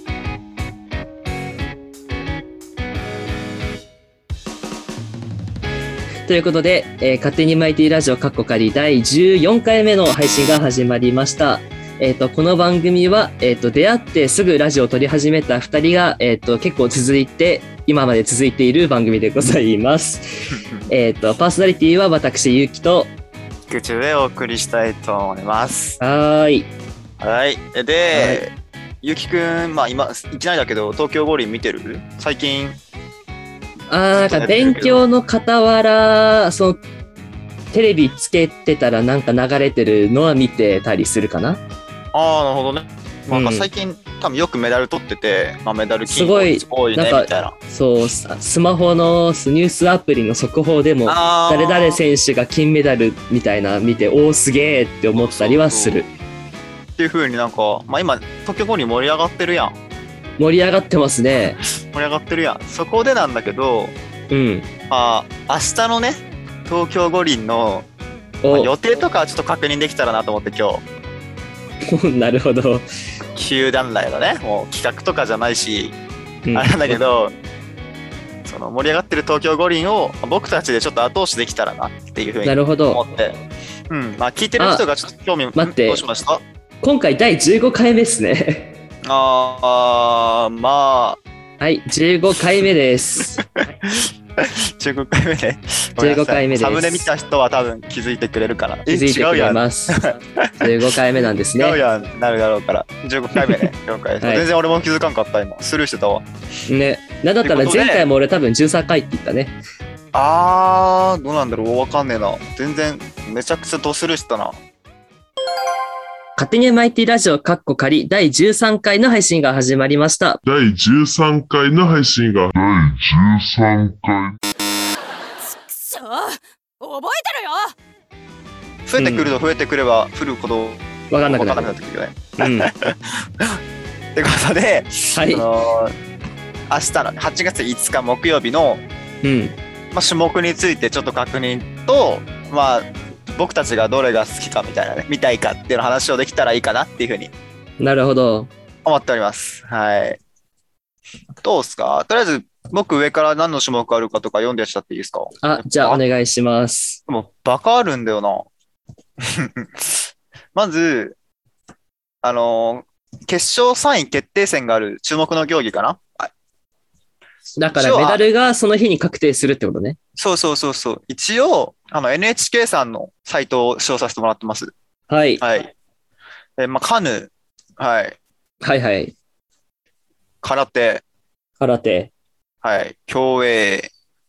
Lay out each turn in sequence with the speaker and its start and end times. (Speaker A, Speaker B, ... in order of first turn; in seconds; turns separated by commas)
Speaker A: 6.3-23.1, Speaker B: 20.5-20.9, Speaker B: 23.7-26.0, Speaker A: 26.0-26.7, Speaker B: 27.2-32.8, Speaker A: 28.1-28.4, Speaker A: 33.9-36.8, Speaker B: 34.2-35.0, Speaker A: 37.7-41.6, Speaker B: 42.1-47.5, Speaker A: 43.3-43.7, Speaker A: 46.1-56.1, Speaker B: 51.1-52.0, Speaker B: 55.2-56.0, Speaker B: 57.0-59.8, Speaker A: 60.4-61.6, Speaker B: 61.4-63.9, Speaker A: 64.3-64.7, Speaker B: 64.9-67.9, Speaker A: 68.4-68.7, Speaker B: 68.5-70.8, Speaker A: 71.9-72.9, Speaker B: 73.3-76.0, Speaker A: 76.5-77.0, Speaker B: 76.5-77.3, Speaker B: 78.5-83.4, Speaker A: 82.5-83.0, Speaker B: 83.9-86.4, Speaker A: 84.6-84.8, Speaker A: 85.6-86.0, Speaker A: 86.8-88.7, Speaker B: 89.0-91.2, Speaker A: 91.6-93.4, Speaker B: 93.4-100.7, Speaker A: 96.0-97.1, Speaker A: 98.9-100.0, Speaker A: 100.6-101.8, Speaker B: 101.6-106.3, Speaker A: 103.4-103.7, Speaker A: 106.7-109.5, Speaker B: 107.4-108.1, Speaker B: 110.1-114.6, Speaker A: 116.4-120.4, Speaker C: 120.5-124.4, Speaker D: 125.4-127.8, Speaker B: 128.9-133.6, Speaker A: 129.0-129.3, Speaker A: 131.1-131.8, Speaker A: 132.4-132.7, Speaker B: 134.2-135.9, Speaker A: 135.1-135.4, Speaker B: 136.7-138.8, Speaker A: 139.2-139.6, Speaker B: 139.9-147.3, Speaker A: 147.8-148.5, Speaker B: 148.8-150.2, Speaker B: 151.4-156.0, Speaker A: 155.4-157.0, Speaker B: 157.1-158.5, Speaker B: 159.2-161.2, Speaker B: 162.2-166.3, Speaker A: 167.6-170.0, Speaker B: 167.8-168.2, Speaker B: 170.2-174.7, Speaker A: 175.1-175.4, Speaker B: 175.4-175.7, Speaker B: 176.6-178.2, Speaker A: 178.6-179.1, Speaker B: 180.4-181.0, Speaker A: 181.6-182.1, Speaker B: 182.6-183.9